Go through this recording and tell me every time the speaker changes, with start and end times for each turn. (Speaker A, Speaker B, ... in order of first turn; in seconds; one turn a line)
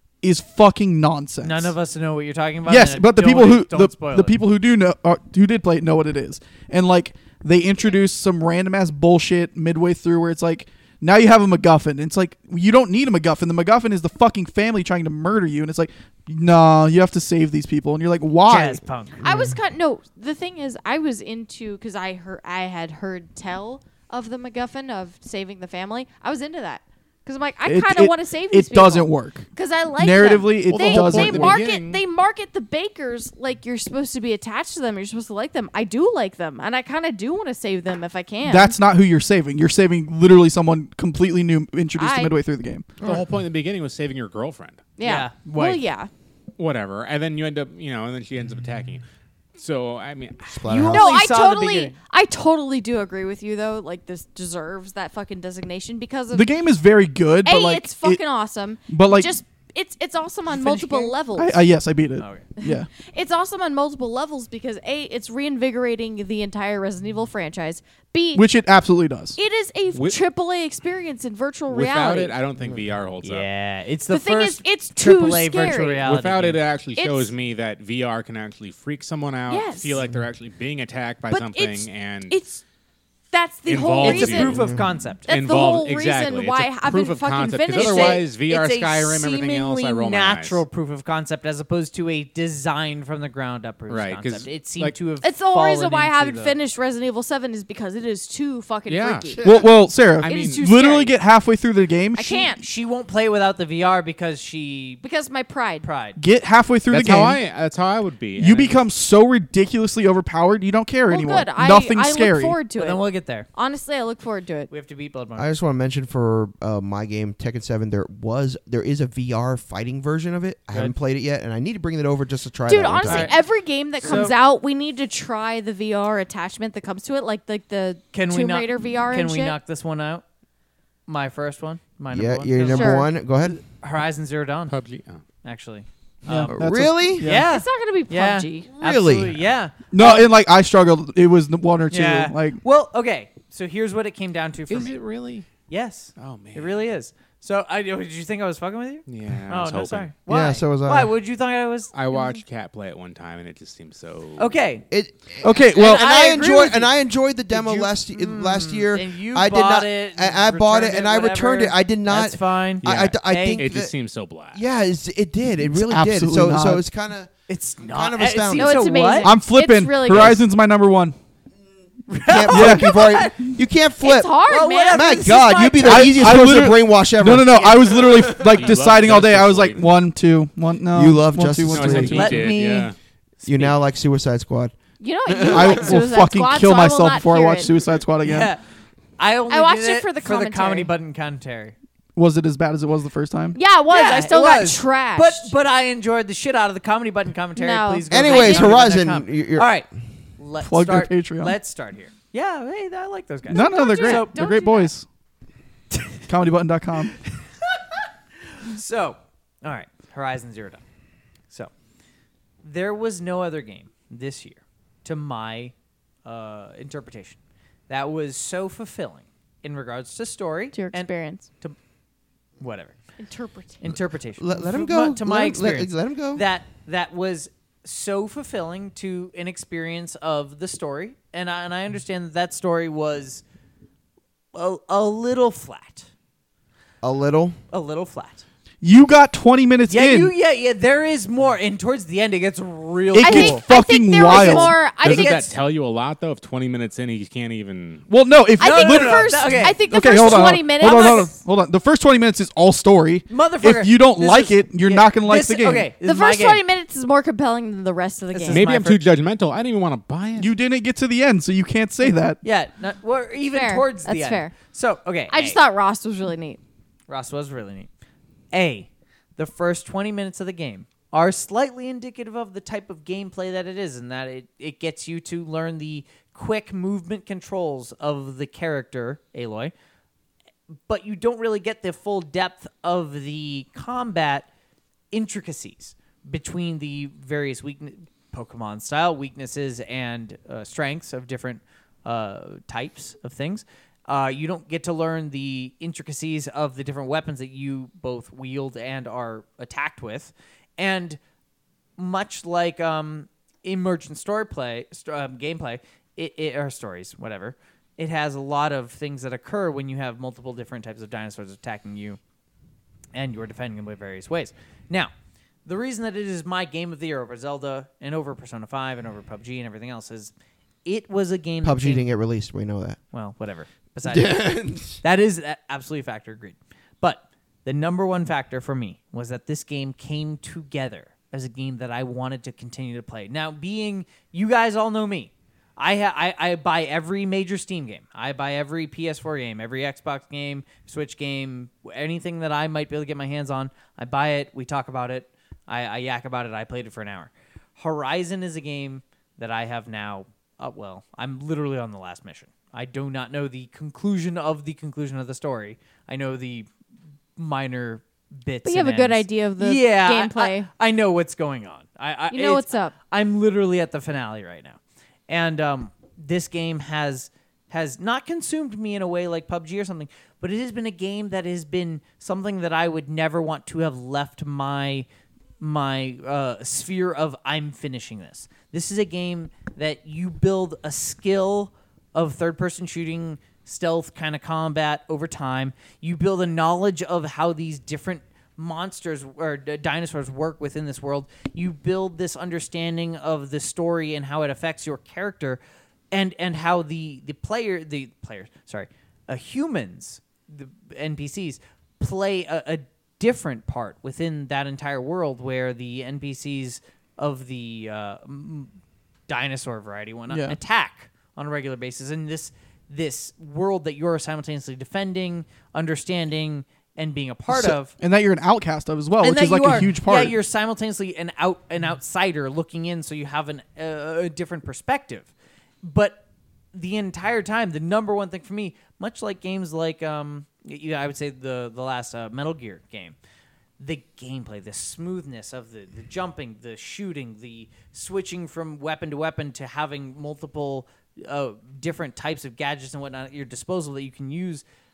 Speaker A: 0.2-1.7
Speaker B: 1.4-4.4
Speaker A: 2.7-18.8
Speaker B: 18.5-19.2
Speaker C: 19.2-19.5
Speaker D: 19.2-38.8
Speaker A: 27.7-31.6
Speaker E: 30.7-32.0
Speaker A: 38.5-42.9
Speaker D: 42.0-42.3
Speaker C: 43.0-43.3
Speaker E: 43.0-44.9
Speaker D: 45.0-46.1
Speaker B: 45.0-45.8
Speaker E: 46.6-49.0
Speaker E: 49.6-50.6
Speaker C: 50.5-51.2
Speaker B: 50.7-52.0
Speaker D: 50.9-56.5
Speaker A: 56.3-58.2
Speaker D: 57.4-61.6
Speaker A: 58.9-59.3
Speaker B: 60.5-61.1
Speaker A: 61.4-62.9
Speaker B: 62.2-62.5
Speaker D: 62.6-68.5
Speaker A: 68.3-69.4
Speaker D: 69.4-72.4
Speaker E: 69.9-70.2
Speaker E: 71.7-73.5
Speaker B: 73.2-76.6
Speaker D: 74.1-76.0
Speaker E: 76.0-82.4
Speaker D: 77.0-77.3
Speaker D: 79.5-80.0
Speaker D: 81.3-82.6
Speaker D: 83.3-84.6
Speaker E: 83.7-84.7
Speaker B: 84.0-85.3
Speaker D: 85.3-88.2
Speaker E: 85.3-90.6
Speaker B: 87.8-96.6
Speaker E: 93.9-95.0
Speaker D: 95.2-99.4
Speaker E: 98.9-99.4
Speaker A: 99.4-102.5
Speaker E: 100.2-100.6
Speaker D: 100.2-101.2
Speaker D: 102.2-102.6
Speaker B: 102.6-105.0
Speaker D: 105.0-105.9
Speaker B: 105.8-106.2
Speaker A: 106.2-107.4
Speaker E: 106.9-108.8
Speaker A: 108.4-112.6
Speaker D: 111.1-114.7
Speaker B: 112.8-113.5
Speaker B: 114.7-115.5
Speaker C: 115.4-123.3
Speaker D: 122.7-129.6
Speaker B: 123.0-123.4
Speaker B: 124.0-124.3
Speaker B: 128.1-130.2
Speaker B: 131.1-134.8
Speaker C: 132.1-133.6
Speaker D: 132.7-133.1
Speaker E: 134.7-135.2
Speaker B: 135.4-136.6
Speaker A: 136.3-137.5
Speaker C: 136.5-137.3
Speaker B: 137.2-140.3
Speaker D: 137.5-138.7
Speaker C: 138.8-139.3
Speaker A: 139.9-142.6
Speaker B: 141.9-145.0
Speaker E: 144.7-145.5
Speaker B: 145.7-151.9
Speaker E: 146.2-146.8
Speaker E: 149.1-150.1
Speaker C: 150.3-151.1
Speaker E: 151.9-154.6
Speaker B: 154.4-154.8
Speaker C: 154.9-163.9
Speaker A: 155.4-156.1
Speaker B: 155.8-156.9
Speaker B: 157.5-163.7
Speaker E: 162.8-164.6
Speaker C: 164.5-167.3
Speaker A: 165.6-166.8
Speaker B: 167.5-169.3
Speaker C: 167.8-169.0
Speaker D: 168.6-170.4
Speaker A: 169.2-171.2
Speaker B: 172.1-173.4
Speaker C: 172.3-178.7
Speaker A: 172.5-172.9
Speaker D: 174.0-176.1
Speaker B: 174.5-176.2
Speaker A: 175.8-182.4
Speaker E: 177.9-179.9
Speaker C: 180.9-182.4
Speaker E: 181.7-183.8
Speaker B: 182.1-182.9
Speaker C: 183.4-184.8
Speaker D: 185.0-187.7
Speaker C: 185.3-186.0
Speaker A: 185.4-188.5
Speaker B: 188.2-188.6
Speaker B: 189.2-191.8
Speaker D: 189.5-190.9
Speaker A: 192.2-193.6
Speaker D: 193.6-195.5
Speaker B: 193.9-199.9
Speaker D: 197.6-198.8
Speaker C: 198.1-199.7
Speaker B: 200.4-204.6
Speaker A: 200.6-201.6
Speaker A: 203.5-205.1
Speaker D: 203.5-204.9
Speaker A: 206.3-207.2
Speaker B: 207.7-210.8
Speaker B: 212.6-215.7
Speaker B: 216.2-221.8
Speaker D: 220.7-221.5
Speaker B: 222.6-223.0
Speaker D: 223.2-223.8
Speaker B: 223.8-233.4
Speaker C: 224.4-226.4
Speaker B: 234.5-236.1
Speaker C: 237.0-237.6
Speaker B: 237.7-238.4
Speaker A: 238.8-240.3
Speaker B: 239.9-243.6
Speaker A: 243.1-244.8
Speaker D: 243.2-245.5
Speaker B: 244.3-245.4
Speaker E: 244.9-248.1
Speaker A: 248.1-255.9
Speaker D: 248.6-251.4
Speaker B: 248.6-251.3
Speaker B: 253.3-256.6
Speaker D: 256.0-258.6
Speaker B: 258.3-259.0
Speaker E: 258.5-260.5
Speaker A: 260.4-262.4
Speaker B: 262.4-265.6
Speaker D: 263.5-264.5
Speaker D: 265.3-266.6
Speaker B: 267.1-267.9
Speaker B: 268.5-279.7
Speaker B: 280.9-284.5
Speaker B: 285.1-301.2
Speaker B: 302.0-312.2
Speaker B: 313.1-315.1
Speaker B: 315.7-320.3
Speaker B: 320.9-322.1
Speaker C: 321.6-323.0
Speaker B: 323.1-356.7
Speaker C: 324.1-325.0
Speaker B: 357.4-375.1
Speaker D: 358.6-360.7
Speaker D: 362.3-362.9
Speaker B: 375.6-395.6
Speaker B: 396.1-408.7
Speaker B: 409.3-417.9
Speaker A: 410.3-410.6
Speaker A: 417.5-420.4
Speaker B: 419.2-425.3
Speaker B: 425.8-433.2
Speaker B: 433.8-444.6